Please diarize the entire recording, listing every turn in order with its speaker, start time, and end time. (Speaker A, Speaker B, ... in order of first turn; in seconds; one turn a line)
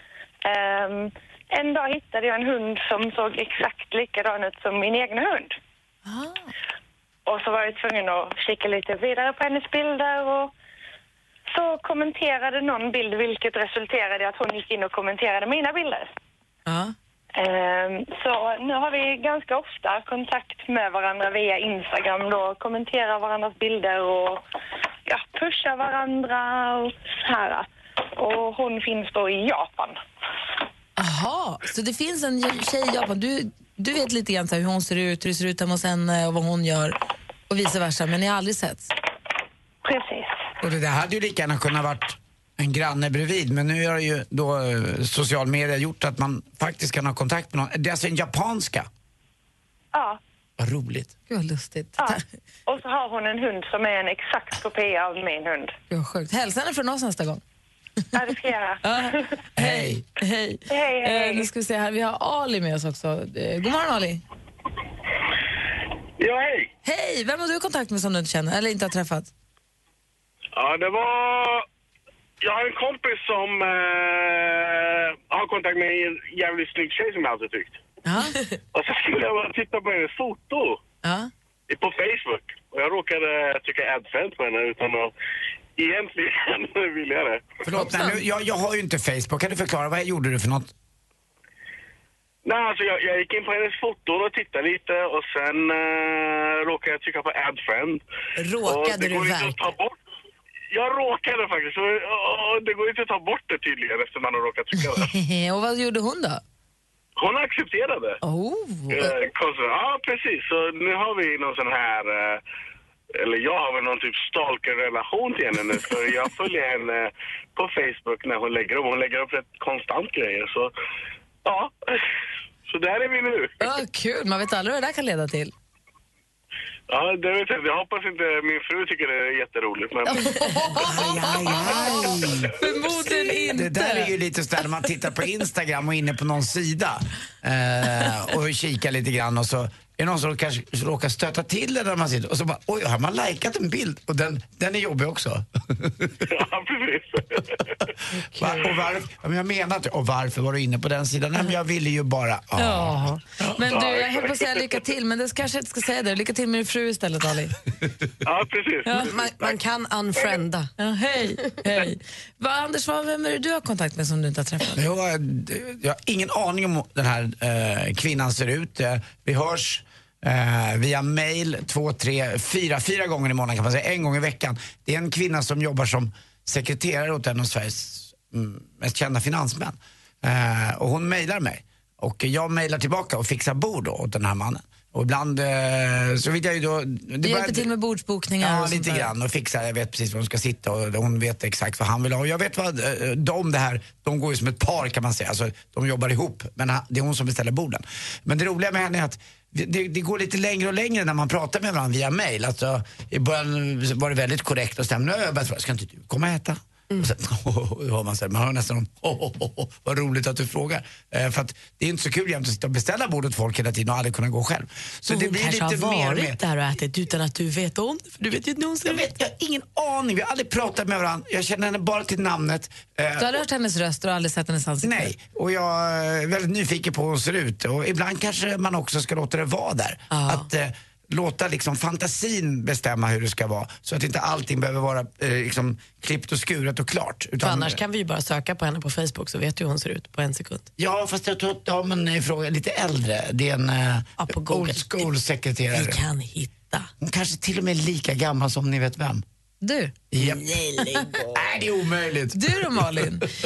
Speaker A: 0.4-5.5
Speaker B: 6.0-6.5
Speaker A: 7.2-10.5
Speaker A: 11.5-16.1
Speaker B: 16.7-16.9
Speaker A: 17.3-24.4
Speaker A: 25.1-30.0
Speaker B: 31.0-37.0
Speaker B: 37.5-38.9
Speaker A: 39.8-40.3
Speaker C: 40.6-48.9
Speaker A: 49.9-50.2
Speaker C: 50.6-51.1
Speaker B: 51.3-52.2
Speaker A: 52.0-55.7
Speaker B: 55.9-57.4
Speaker A: 58.1-59.2
Speaker B: 58.8-64.2
Speaker C: 59.5-60.0
Speaker A: 60.7-61.5
Speaker D: 66.2-66.7
Speaker B: 66.8-69.3
Speaker D: 70.5-71.6
Speaker D: 72.4-77.8
Speaker B: 78.0-78.4
Speaker D: 78.7-80.8
Speaker B: 81.0-81.3
Speaker D: 81.7-85.1
Speaker D: 85.8-87.5
Speaker C: 87.7-90.7
Speaker E: 87.7-88.2
Speaker D: 92.4-98.0
Speaker E: 98.4-99.6
Speaker D: 98.6-100.0
Speaker D: 100.7-105.1
Speaker B: 104.7-106.4
Speaker D: 107.2-108.2
Speaker B: 108.2-109.2
Speaker D: 108.9-112.4
Speaker D: 113.2-120.7
Speaker D: 121.4-122.0
Speaker D: 122.7-123.5
Speaker B: 123.6-125.5
Speaker D: 126.9-130.4
Speaker B: 130.1-134.1
Speaker C: 130.9-132.5
Speaker C: 133.5-146.1
Speaker D: 146.3-147.6
Speaker C: 148.3-153.6
Speaker B: 152.6-157.5
Speaker D: 153.7-154.3
Speaker D: 158.2-159.6
Speaker E: 159.0-160.7
Speaker B: 160.8-164.8
Speaker C: 164.8-187.7
Speaker B: 187.2-189.1
Speaker C: 188.4-216.4
Speaker E: 215.1-219.1
Speaker C: 218.8-223.3
Speaker B: 223.2-225.1
Speaker C: 224.8-237.8
Speaker E: 230.1-230.4
Speaker E: 237.4-240.7
Speaker C: 240.8-246.0
Speaker E: 244.2-245.1
Speaker E: 245.7-246.9
Speaker C: 247.0-249.2
Speaker B: 249.6-249.9
Speaker C: 250.1-250.5
Speaker E: 250.2-251.4
Speaker C: 251.3-253.1
Speaker B: 252.3-253.2